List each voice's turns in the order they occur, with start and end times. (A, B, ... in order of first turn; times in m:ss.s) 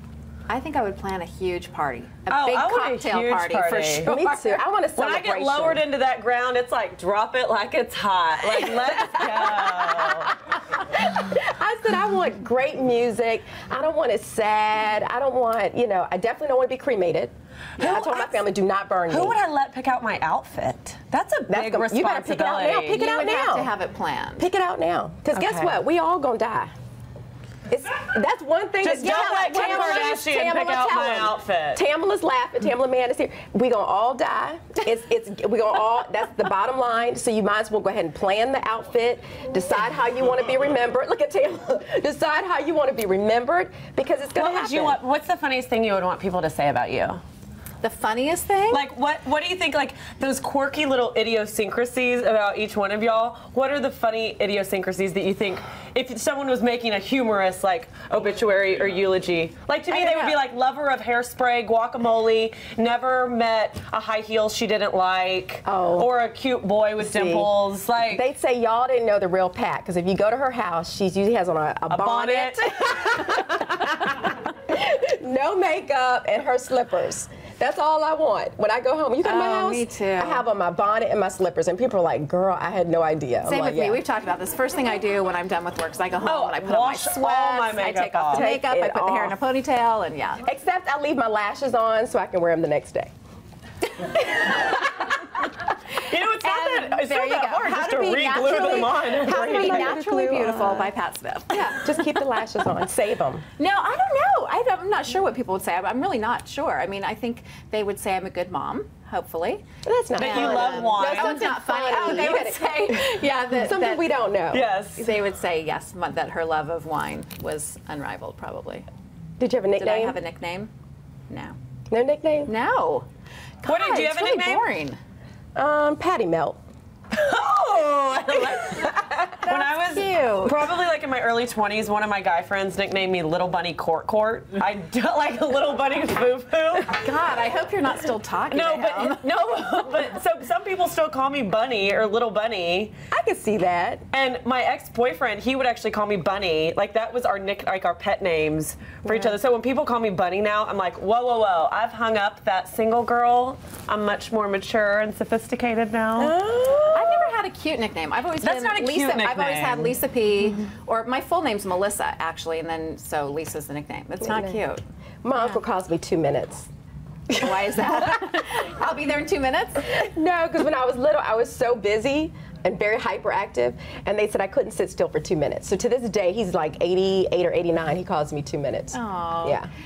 0:00.5-0:04.6 A
0:02.3-0:04.1 B
0:04.0-0:05.8 C
0:04.9-0:10.3 B
0:09.1-0:19.4 C
0:17.8-0:18.4 B
0:19.1-0:23.0 B
0:21.5-0:23.7 C
0:22.9-0:24.5 A
0:24.4-0:26.7 C
0:25.3-0:25.8 B
0:27.7-0:45.0 C
0:28.8-0:31.8 B
0:29.0-0:30.1 A
0:44.4-0:47.2 B
0:47.8-0:48.8 A
0:48.7-1:08.2 B
0:59.9-1:00.3 A
1:05.6-1:06.1 C
1:07.0-1:07.5 C
1:08.0-1:13.7 C
1:11.9-1:14.1 B
1:14.7-1:24.0 C
1:19.2-1:20.4 A
1:23.4-1:30.4 A
1:26.2-1:28.4 B
1:28.3-1:29.4 C
1:30.4-1:33.1 C
1:35.9-1:40.0 B
1:36.0-1:42.0 A
1:39.2-1:40.9 C
1:41.7-1:43.4 C
1:43.6-1:49.6 A
1:49.8-1:54.6 C
1:50.2-1:51.5 B
1:50.2-1:54.2 A
1:52.0-1:52.3 B
1:54.5-1:55.0 B
1:55.0-1:58.8 A
1:59.4-2:00.2 C
1:59.7-2:00.7 A
2:01.3-2:01.6 A
2:01.9-2:02.5 C
2:02.4-2:03.1 A
2:03.6-2:05.0 A
2:03.7-2:04.6 B
2:05.6-2:06.6 C
2:07.1-2:17.0 B
2:09.4-2:10.6 A
2:16.9-2:19.2 A
2:18.5-2:22.9 B
2:23.1-2:24.0 C
2:24.1-2:36.4 B
2:36.2-2:37.3 C
2:36.9-2:44.8 A
2:38.4-2:40.0 B
2:44.2-2:44.6 C
2:45.2-2:46.7 C
2:47.3-2:48.1 C
2:47.3-2:50.0 A
2:49.9-2:59.7 C
2:58.9-2:59.6 A